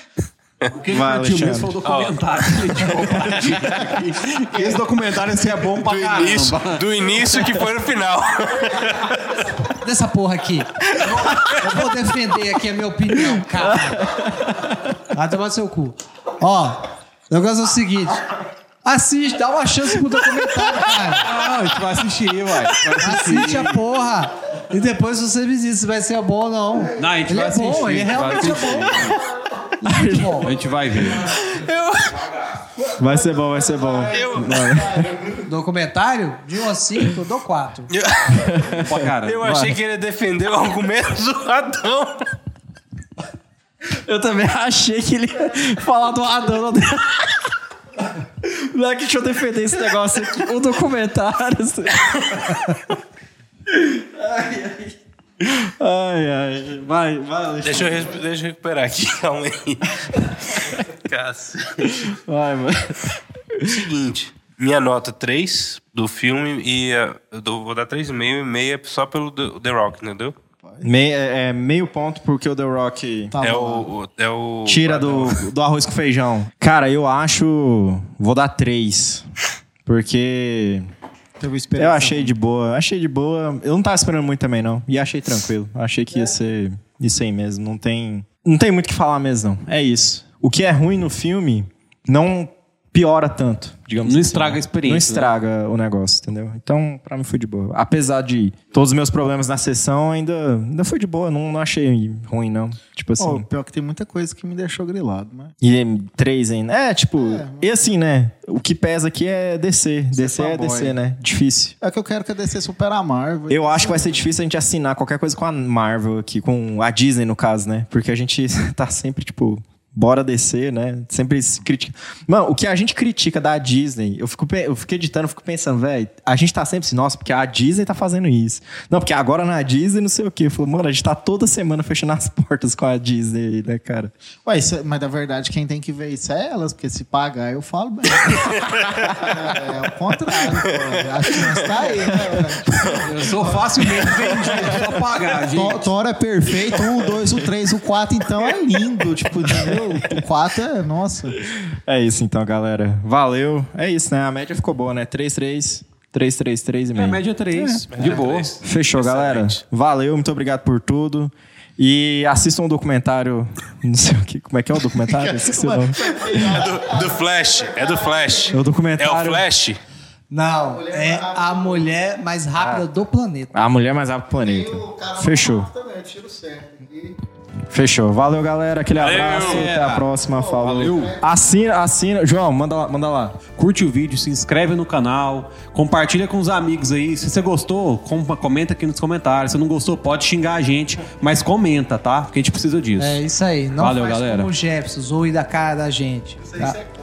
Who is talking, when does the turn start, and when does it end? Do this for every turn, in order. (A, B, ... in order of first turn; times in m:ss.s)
0:00.8-0:06.9 A
0:00.9-0:01.8 B
0:01.8-0:02.2 C
0:02.7-0:03.9 C
0:03.2-0:03.9 B
0:05.8-0:09.3 C
0:07.4-0:07.7 B
0:09.8-0:14.1 D
0:11.0-0:11.7 B
0:13.3-0:15.0 B
0:15.1-0:18.2 D
0:18.8-0:21.3 D
0:21.2-0:23.8 A
0:23.0-0:29.1 D
0:27.0-0:29.2 A
0:29.8-0:30.4 B
0:29.9-0:30.5 D
0:29.9-0:31.3 A
0:31.2-0:32.2 B
0:32.9-0:35.4 B
0:33.2-0:34.0 E
0:34.1-0:34.6 C
0:35.5-0:37.9 D
0:37.9-0:38.5 C
0:38.4-0:39.8 B
0:38.8-0:39.4 A
0:39.2-0:42.3 C
0:43.9-0:47.5 B
0:48.4-0:52.8 B
0:53.7-0:58.2 B
0:57.6-1:00.0 C
1:00.5-1:01.8 C
1:01.8-1:03.7 B
1:03.6-1:10.4 C
1:10.8-1:13.3 B
1:13.3-1:13.9 E
1:13.4-1:15.4 C
1:14.7-1:19.3 B
1:19.8-1:20.9 B
1:21.4-1:22.4 E
1:21.8-1:43.4 B
1:34.0-1:35.3 A
1:43.2-1:45.5 E
1:45.6-1:51.8 B
1:47.2-1:47.6 E
1:50.1-1:50.9 E
1:51.8-1:54.3 E
1:53.5-2:14.1 B
2:14.4-2:18.6 E
2:18.2-2:19.4 C
2:19.2-2:23.6 E
2:20.5-2:21.5 C
2:23.1-2:25.9 A
2:24.1-2:24.7 B
2:25.5-2:31.4 E
2:29.5-2:30.2 B
2:31.4-2:46.6 B
2:37.0-2:38.5 A
2:37.9-2:39.6 C
2:45.1-2:48.6 E
2:46.4-2:49.8 C
2:48.5-2:49.4 B
2:50.3-2:53.5 D
2:50.7-2:51.9 E
2:53.5-2:55.7 B
2:54.4-2:57.2 E
2:57.7-3:03.4 B
2:59.0-2:59.7 C
2:59.1-3:00.1 A
3:00.3-3:01.4 E
3:00.6-3:01.1 A
3:03.6-3:13.2 A
3:13.0-3:16.8 D
3:13.8-3:14.5 A